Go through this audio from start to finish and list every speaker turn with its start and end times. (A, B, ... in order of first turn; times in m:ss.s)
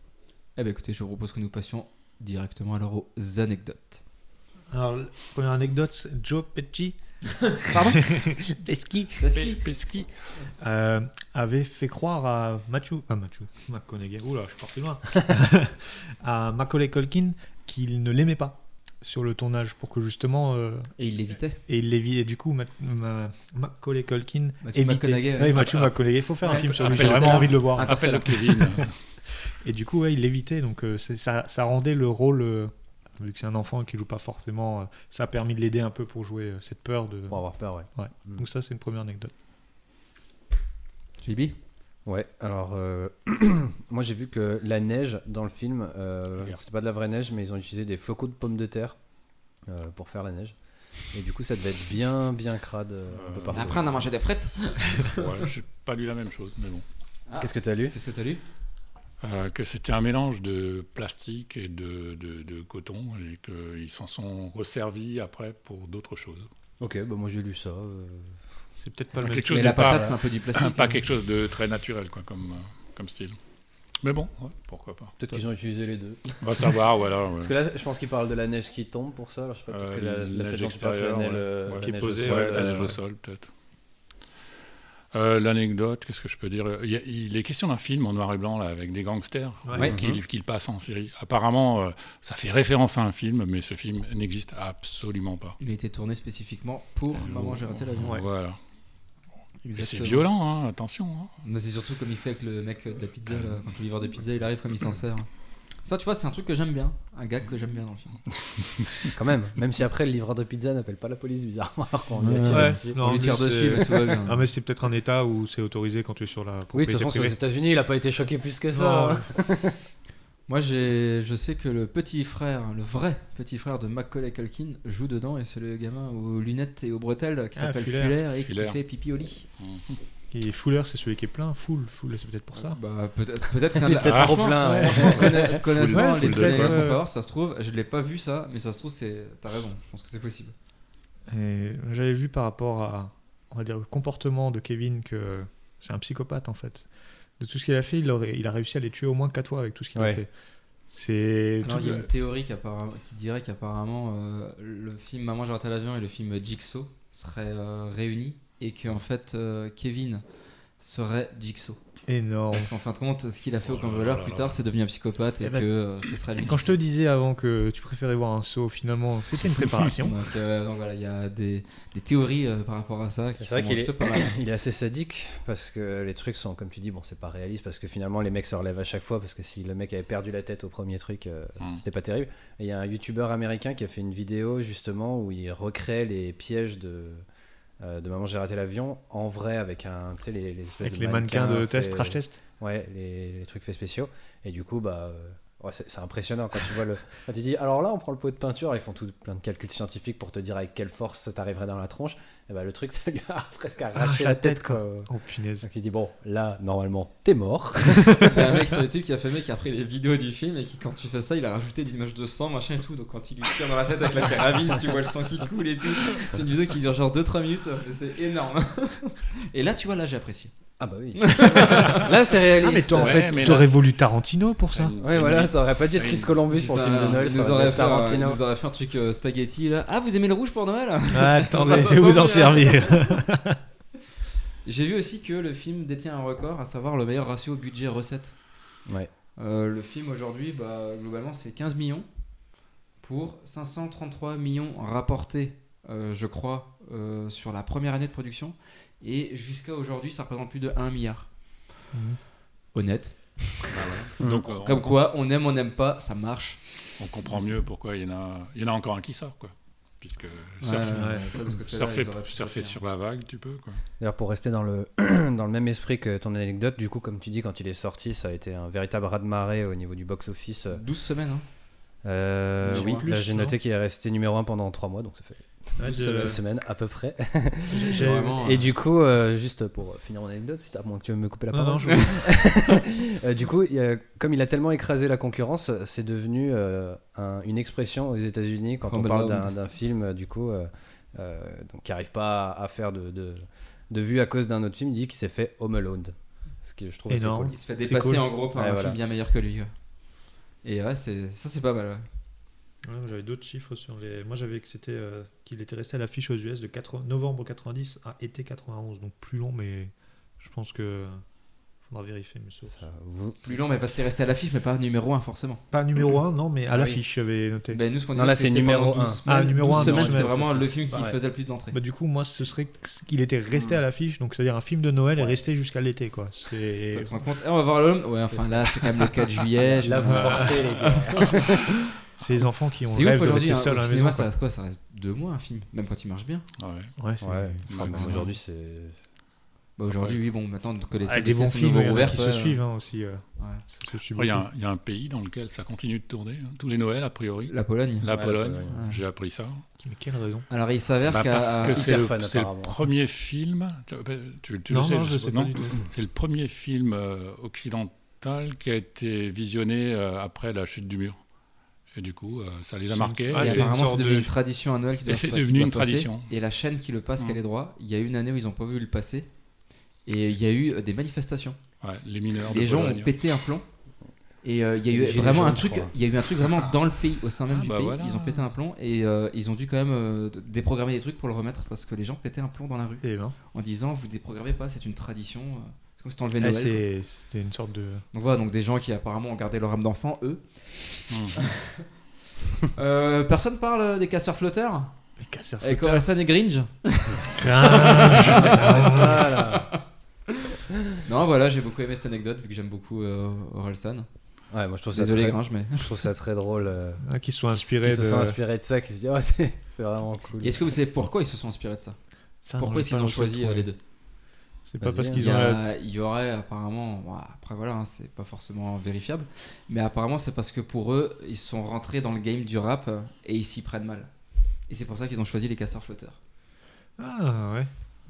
0:00.6-0:04.0 A
0:04.7-0:09.3 B
0:07.2-0:08.0 A
0:09.2-0:09.6 A
0:09.4-0:10.3 C
0:10.6-0:20.9 B
0:21.0-0:21.6 A
0:21.7-0:27.9 B
0:24.6-0:25.9 A
0:25.6-0:25.9 C
0:26.4-0:28.9 C
0:26.4-0:28.7 A
0:29.6-0:37.4 B
0:37.3-0:38.4 D
0:37.9-0:39.3 B
0:41.2-0:41.5 A
0:42.0-0:49.0 D
0:49.6-0:50.5 D
0:51.1-0:53.9 D
0:53.1-0:53.9 C
0:53.5-0:55.3 A
0:54.6-0:56.8 C
0:57.3-0:58.4 A
0:57.4-0:57.9 D
0:59.2-1:06.5 C
1:06.8-1:08.4 D
1:08.8-1:09.7 B
1:09.2-1:13.4 C
1:09.5-1:11.0 A
1:14.0-1:15.1 C
1:15.2-1:16.8 D
1:16.4-1:17.5 C
1:17.4-1:22.9 D
1:19.7-1:23.5 C
1:21.8-1:22.9 B
1:25.1-1:35.6 C
1:29.6-1:29.9 B
1:29.8-1:30.2 D
1:35.6-1:38.2 A
1:37.1-1:38.6 C
1:39.6-1:40.2 A
1:39.7-1:41.3 C
1:41.4-1:45.3 A
1:43.3-1:43.7 C
1:45.8-1:48.2 A
1:49.0-1:53.8 D
1:52.2-1:52.5 C
1:52.2-1:54.4 A
1:52.5-1:57.4 B
1:56.7-1:59.8 D
1:58.7-1:59.3 B
2:00.5-2:09.4 A
2:07.6-2:08.1 B
2:08.4-2:08.8 C
2:09.6-2:10.0 C
2:10.3-2:12.8 B
2:12.5-2:20.5 A
2:13.7-2:15.6 D
2:14.1-2:14.5 C
2:14.6-2:17.0 B
2:15.4-2:16.8 C
2:21.3-2:26.9 B
2:27.4-2:30.3 B
2:29.9-2:30.2 D
2:30.9-2:32.1 B
2:31.6-2:40.2 A
2:40.8-2:41.8 A
2:42.1-2:42.7 B
2:42.5-2:46.7 A
2:43.6-2:44.6 C
2:45.4-2:45.7 B
2:46.4-2:50.1 B
2:50.0-2:54.4 A
2:53.4-3:07.2 D
3:07.8-3:28.3 D
3:10.8-3:12.4 B
3:24.0-3:25.7 B
3:28.2-3:40.5 A
3:40.8-3:43.5 D
3:41.2-3:42.0 A
3:42.6-3:44.9 B
3:43.0-3:43.9 C
3:44.7-3:46.3 C
3:45.0-3:48.4 D
3:46.5-3:53.0 A
3:51.1-3:53.6 B
3:54.6-3:58.4 A
3:59.4-4:02.1 A
4:03.0-4:11.3 A
4:11.9-4:12.2 B
4:12.7-4:13.6 A
4:13.7-4:15.0 C
4:14.2-4:14.5 D
4:14.4-4:16.6 A
4:17.0-4:23.8 C
4:20.6-4:22.8 A
4:20.9-4:21.2 B
4:24.0-4:30.8 D
4:30.7-4:31.4 A
4:32.0-4:57.6 D
4:32.6-4:33.5 B
4:32.6-4:33.1 A
4:35.8-4:36.4 B
4:35.8-4:36.4 A
4:37.7-4:38.4 B
4:37.9-4:38.7 A
4:41.5-4:42.3 B
4:48.9-4:49.5 A
4:57.1-4:58.3 B
4:57.5-4:59.7 A
4:58.5-4:59.0 D
5:00.6-5:02.0 A
5:02.8-5:11.2 B
5:11.8-5:12.8 B
5:12.7-5:13.4 D
5:13.4-5:15.6 A
5:15.7-5:17.8 B
5:16.7-5:17.0 D
5:17.7-5:21.8 A
5:18.1-5:21.2 D
5:19.3-5:21.1 B
5:21.7-5:27.1 B
5:23.5-5:23.8 D
5:26.9-5:31.5 A
5:28.2-5:28.8 D
5:29.5-5:31.6 D
5:30.0-5:30.8 B
5:32.2-5:34.3 B
5:32.9-5:36.5 A
5:36.6-5:36.9 C
5:37.0-5:38.2 B
5:37.2-5:39.0 D
5:37.7-5:38.3 C
5:39.8-5:42.6 A
5:39.9-5:40.2 C
5:41.0-5:44.4 B
5:43.4-5:43.6 A
5:44.1-5:49.6 C
5:47.5-5:48.9 A
5:48.1-5:48.8 D
5:49.8-5:50.5 B
5:50.5-5:51.9 A
5:51.1-6:01.2 C
5:51.6-5:52.8 D
5:54.7-5:55.8 B
6:01.9-6:03.7 C
6:02.9-6:04.3 B
6:03.3-6:09.3 A
6:05.0-6:06.3 C
6:10.0-6:11.6 A
6:11.8-6:13.1 C
6:12.5-6:13.6 A
6:14.4-6:26.8 A
6:14.8-6:15.9 D
6:17.5-6:18.5 C
6:23.0-6:23.4 B
6:26.4-6:28.0 B
6:28.1-6:30.4 A
6:31.1-6:31.4 C
6:31.4-6:31.8 A
6:32.7-6:34.9 A
6:35.2-6:36.0 B
6:35.6-6:39.7 A
6:37.3-6:39.3 B
6:38.4-6:39.7 D
6:41.0-6:44.1 A
6:44.5-6:50.6 D
6:44.9-6:45.9 A
6:47.0-6:48.4 B
6:50.4-6:53.8 A
6:52.4-6:53.7 B
6:54.6-6:55.6 B
6:54.8-6:55.2 D
6:55.1-7:04.1 A
7:04.7-7:06.2 A
7:07.0-7:07.7 B